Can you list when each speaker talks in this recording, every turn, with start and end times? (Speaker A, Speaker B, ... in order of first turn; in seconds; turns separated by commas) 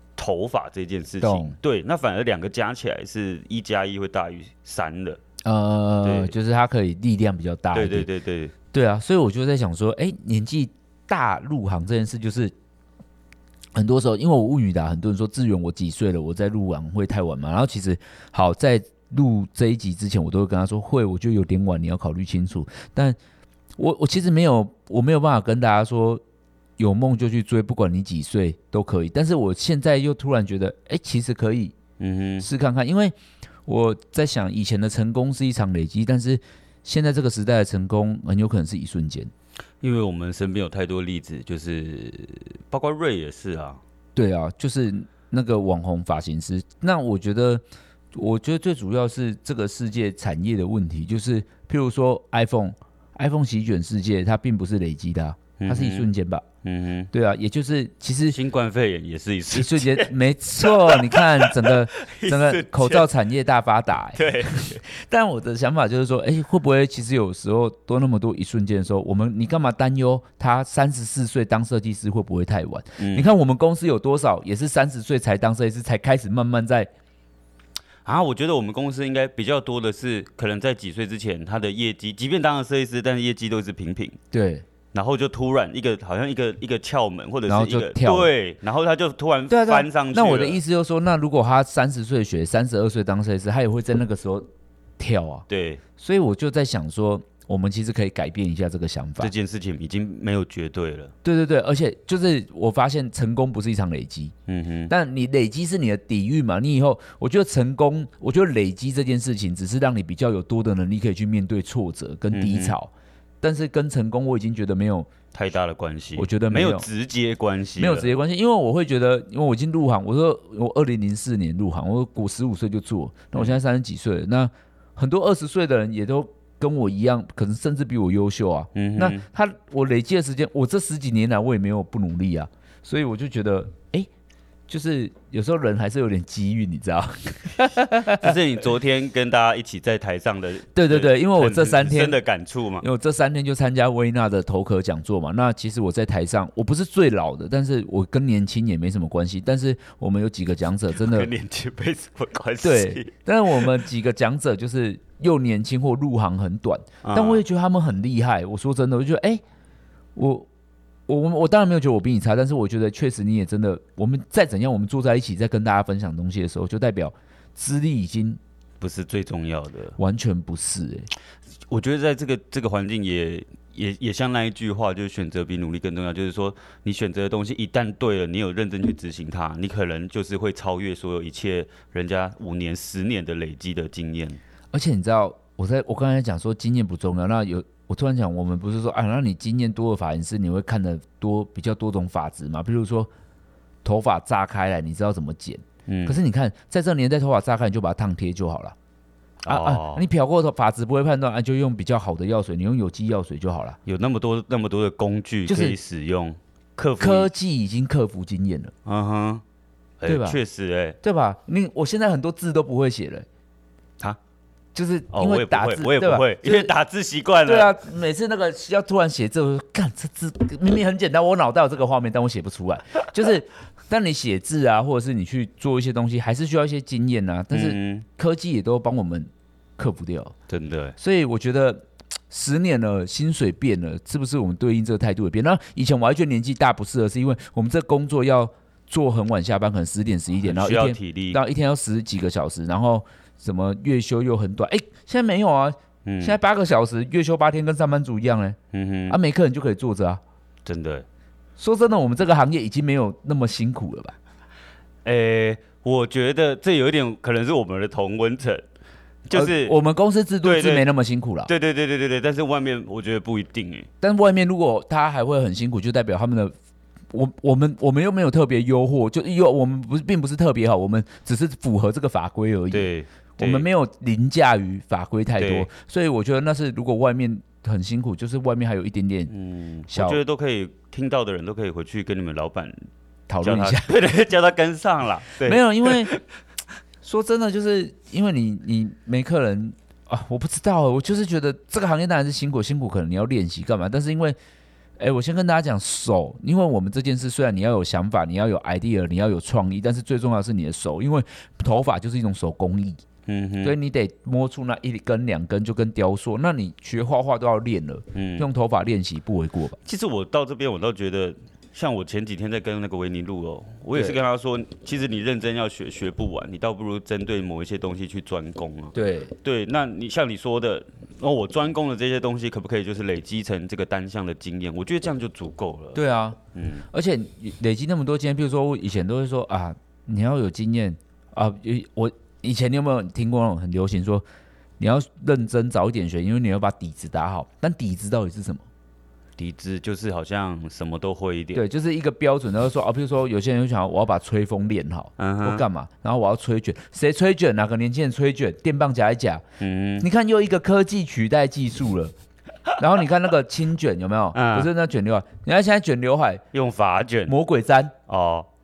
Speaker A: 0.2-5.2, Speaker B: 1.2-1.6, Speaker B: 5.5-8.1, Speaker A: 6.0-6.3, Speaker A: 7.7-8.5, Speaker B: 8.7-12.5, Speaker B: 13.8-23.2, Speaker B: 23.8-26.2, Speaker B: 26.8-31.8, Speaker A: 32.0-32.5, Speaker B: 32.4-33.1, Speaker B: 33.7-39.3, Speaker A: 39.8-43.8, Speaker B: 44.2-56.5, Speaker A: 55.6-56.1, Speaker A: 56.6-57.1, Speaker B: 57.1-58.4, Speaker A: 58.3-63.1, Speaker B: 59.5-76.9, Speaker A: 64.2-64.8, Speaker A: 73.0-73.3, Speaker A: 78.0-84.2, Speaker B: 84.3-84.7, Speaker A: 84.9-90.6, Speaker B: 87.5-88.3, Speaker B: 89.5-94.5, Speaker B: 95.0-95.5, Speaker A: 95.5-95.8, Speaker B: 96.0-99.3, Speaker A: 99.2-101.1, Speaker B: 101.2-104.3, Speaker A: 104.5-104.9, Speaker B: 104.9-115.1, Speaker A: 112.3-112.8, Speaker A: 115.3-118.2, Speaker B: 116.2-116.9, Speaker B: 117.8-134.1, Speaker A: 128.7-129.3, Speaker B: 134.7-138.4, Speaker A: 138.1-142.9, Speaker B: 140.8-142.2, Speaker B: 142.8-151.3, Speaker A: 151.0-153.7, Speaker B: 152.6-159.4, Speaker A: 157.0-157.4, Speaker B: 160.2-160.5, Speaker B: 161.1-168.4, Speaker A: 168.8-170.0, Speaker B: 170.0-171.1, Speaker A: 171.7-184.4, Speaker B: 184.7-193.1, Speaker B: 193.8-198.8, Speaker A: 195.9-196.2, Speaker A: 199.4-200.1, Speaker B: 199.5-203.8, Speaker A: 203.8-207.3, Speaker B: 205.5-205.8, Speaker B: 207.0-208.7, Speaker A: 208.8-209.4, Speaker A: 210.0-211.0, Speaker B: 210.1-210.4, Speaker B: 211.0-213.3, Speaker B: 214.8-216.7, Speaker A: 215.1-217.8, Speaker B: 217.4-230.3, Speaker A: 227.5-228.1, Speaker A: 230.5-231.0, Speaker B: 231.0-248.6, Speaker A: 240.4-241.4, Speaker A: 246.1-246.4, Speaker A: 248.7-249.2, Speaker B: 249.1-250.2, Speaker A: 250.7-251.1, Speaker B: 251.6-254.2, Speaker A: 255.1-258.6, Speaker A: 259.3-259.8, Speaker B: 259.3-261.5, Speaker A: 260.4-260.9, Speaker A: 261.5-263.9, Speaker B: 264.0-266.5, Speaker B: 267.1-279.3, Speaker A: 272.7-273.7, Speaker A: 275.4-275.7, Speaker A: 279.3-282.9, Speaker B: 279.9-280.2, Speaker B: 283.3-283.9, Speaker A: 283.4-286.2, Speaker B: 285.4-286.1, Speaker B: 287.0-294.4, Speaker B: 295.0-303.0, Speaker A: 303.3-303.8, Speaker B: 303.6-309.8, Speaker A: 308.1-308.5, Speaker A: 309.9-326.0, Speaker B: 313.9-314.2, Speaker B: 318.9-319.3, Speaker B: 325.9-326.4, Speaker A: 326.5-326.9, Speaker B: 326.9-334.2, Speaker B: 334.8-338.6, Speaker A: 339.4-341.6, Speaker B: 341.5-349.4, Speaker A: 345.2-345.6, Speaker A: 349.6-350.1, Speaker B: 350.0-352.1, Speaker B: 352.8-356.4, Speaker A: 354.3-354.7, Speaker A: 356.5-357.4, Speaker B: 357.3-357.9, Speaker A: 358.1-358.5